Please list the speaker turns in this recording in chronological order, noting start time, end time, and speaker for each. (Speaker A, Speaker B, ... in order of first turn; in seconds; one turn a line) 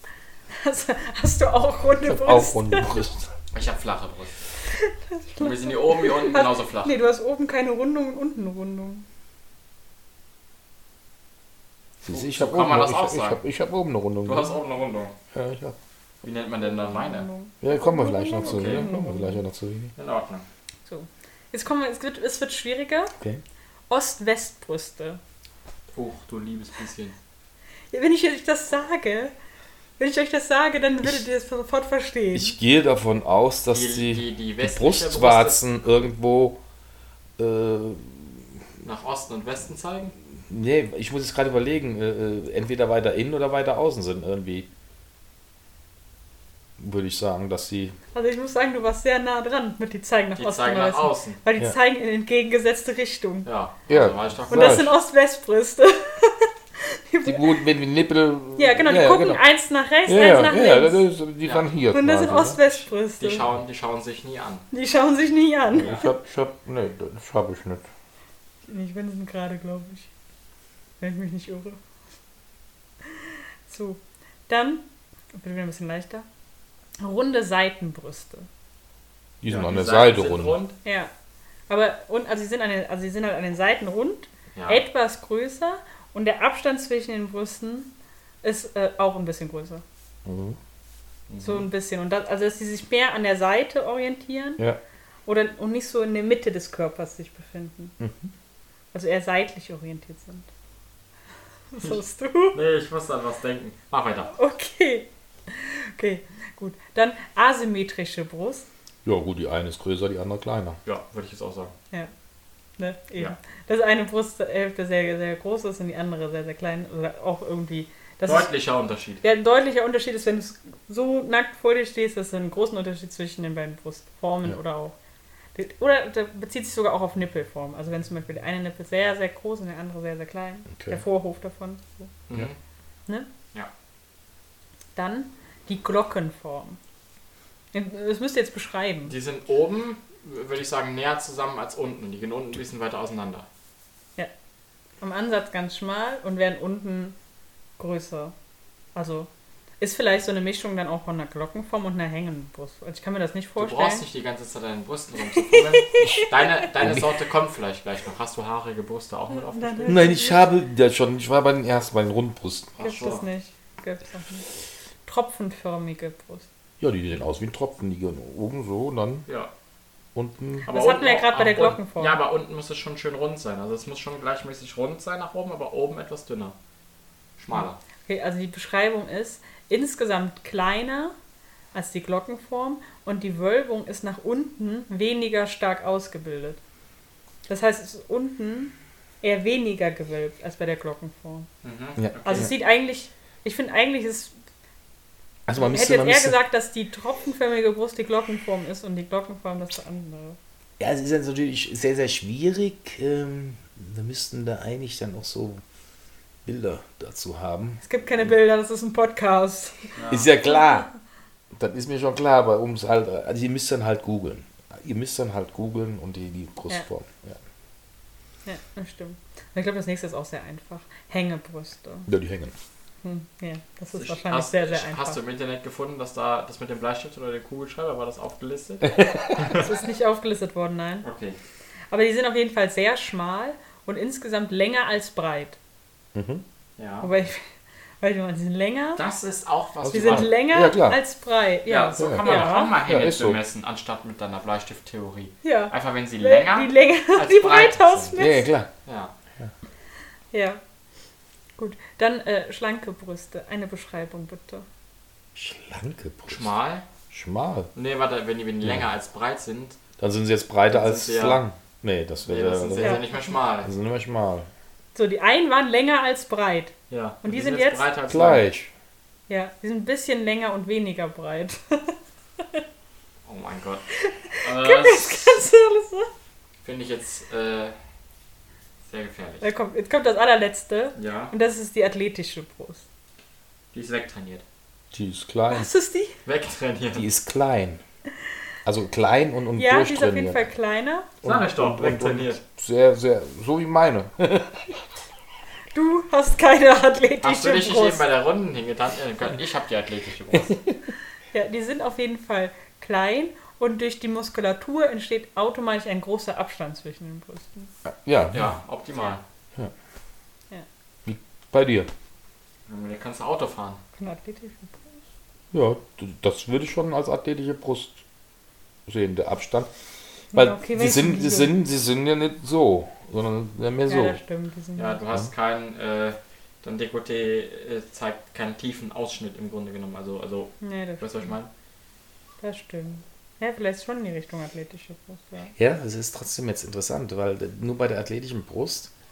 Speaker A: 0.5-3.0
Speaker B: 2.0-3.3
Speaker C: 3.5-4.5
Speaker A: 4.7-9.0
Speaker C: 5.4-7.0
Speaker C: 12.0-13.4
Speaker B: 12.1-14.6
Speaker C: 14.2-15.2
Speaker B: 15.3-15.8
Speaker C: 16.2-17.3
Speaker A: 16.6-19.4
Speaker B: 17.6-19.9
Speaker C: 18.4-18.9
Speaker C: 20.0-20.4
Speaker A: 20.9-23.1
Speaker A: 23.9-25.2
Speaker C: 25.9-27.2
Speaker A: 27.9-29.3
Speaker A: 30.0-32.5
Speaker B: 32.3-36.6
Speaker C: 33.7-35.8
Speaker B: 37.4-38.5
Speaker C: 38.8-40.1
Speaker B: 40.5-44.7
Speaker B: 46.8-48.0
Speaker A: 48.1-53.5
Speaker C: 50.4-51.4
Speaker C: 53.5-54.9
Speaker B: 53.9-54.9
Speaker A: 54.5-57.5
Speaker B: 57.2-59.4
Speaker A: 58.6-61.0
Speaker B: 60.1-62.6
Speaker A: 61.9-63.5
Speaker C: 62.3-64.7
Speaker A: 64.7-66.1
Speaker B: 65.7-67.8
Speaker A: 68.7-70.1
Speaker A: 71.0-71.8
Speaker A: 73.1-74.8
Speaker A: 75.3-76.3
Speaker A: 77.0-78.5
Speaker B: 79.4-80.6
Speaker C: 79.5-80.8
Speaker A: 80.8-81.1
Speaker A: 81.7-87.9
Speaker C: 84.5-84.8
Speaker A: 88.4-89.8
Speaker B: 90.2-90.6
Speaker C: 91.3-91.7
Speaker A: 91.4-94.6
Speaker A: 95.3-98.0
Speaker B: 98.0-98.3
Speaker A: 98.9-100.5
Speaker A: 101.7-102.6
Speaker C: 102.5-104.3
Speaker A: 104.3-108.7
Speaker B: 109.0-110.8
Speaker C: 110.8-111.7
Speaker A: 112.8-118.5
Speaker C: 118.2-119.2
Speaker A: 119.2-125.0
Speaker A: 125.5-132.1
Speaker B: 130.8-131.0
Speaker C: 132.3-132.6
Speaker A: 135.0-136.8
Speaker A: 137.7-139.1
Speaker C: 139.1-143.5
Speaker A: 145.0-147.2
Speaker A: 147.8-148.3
Speaker A: 148.9-149.3
Speaker A: 149.8-154.0
Speaker C: 153.6-160.0
Speaker A: 155.3-156.4
Speaker B: 156.8-157.1
Speaker A: 159.3-160.5
Speaker B: 159.9-162.8
Speaker C: 162.8-163.2
Speaker A: 162.8-164.4
Speaker A: 165.1-166.5
Speaker B: 166.8-169.3
Speaker B: 170.2-170.7
Speaker A: 170.7-172.2
Speaker C: 170.7-176.6
Speaker C: 177.4-177.8
Speaker A: 178.1-181.2
Speaker A: 181.7-186.6
Speaker A: 187.5-191.5
Speaker C: 191.6-192.5
Speaker B: 192.0-192.5
Speaker A: 192.2-194.3
Speaker B: 195.5-196.4
Speaker A: 195.6-200.4
Speaker B: 200.8-205.6
Speaker B: 206.4-207.8
Speaker A: 207.8-210.0
Speaker C: 210.0-210.3
Speaker B: 210.1-210.9
Speaker B: 211.5-217.4
Speaker A: 218.4-222.1
Speaker B: 222.1-222.6
Speaker A: 223.0-225.2
Speaker C: 223.9-229.7
Speaker B: 228.9-229.4
Speaker A: 229.5-231.1
Speaker C: 231.0-231.4
Speaker A: 231.9-235.6
Speaker B: 236.2-236.4
Speaker C: 236.8-237.1
Speaker A: 237.0-237.5
Speaker A: 238.0-239.0
Speaker C: 239.0-240.3
Speaker B: 239.8-241.0
Speaker A: 239.9-242.8
Speaker C: 241.7-248.2
Speaker B: 242.0-243.4
Speaker A: 245.4-248.5
Speaker B: 248.2-248.7
Speaker C: 248.9-249.1
Speaker A: 250.3-250.6
Speaker A: 251.6-254.7
Speaker B: 255.3-256.6
Speaker C: 256.3-256.9
Speaker B: 257.1-257.7
Speaker C: 257.8-259.8
Speaker B: 260.0-264.5
Speaker C: 260.7-261.4
Speaker C: 262.3-263.7
Speaker A: 262.8-263.1
Speaker A: 264.9-267.9
Speaker C: 266.9-268.6
Speaker B: 268.1-268.7
Speaker A: 269.3-272.0
Speaker C: 273.3-273.9
Speaker A: 274.0-276.1
Speaker C: 274.4-275.4
Speaker C: 276.6-277.8
Speaker C: 278.9-279.4
Speaker A: 279.4-282.9
Speaker C: 281.0-281.3
Speaker C: 283.7-284.4
Speaker B: 284.9-285.7
Speaker A: 285.5-286.2
Speaker C: 286.2-287.1
Speaker B: 286.9-287.8
Speaker B: 288.6-290.4
Speaker A: 289.6-291.1
Speaker B: 291.2-294.8
Speaker C: 291.2-292.4
Speaker A: 295.7-298.1
Speaker C: 297.2-300.6
Speaker A: 301.3-307.7
Speaker B: 307.9-308.5
Speaker C: 308.3-309.2
Speaker B: 311.1-311.9
Speaker C: 312.7-313.8
Speaker A: 314.0-315.0
Speaker B: 315.5-318.0
Speaker B: 318.9-319.7
Speaker A: 320.3-321.5
Speaker B: 320.3-324.2
Speaker A: 323.9-325.0
Speaker C: 324.8-331.5
Speaker A: 330.6-331.3
Speaker A: 332.4-335.5
Speaker B: 335.6-338.9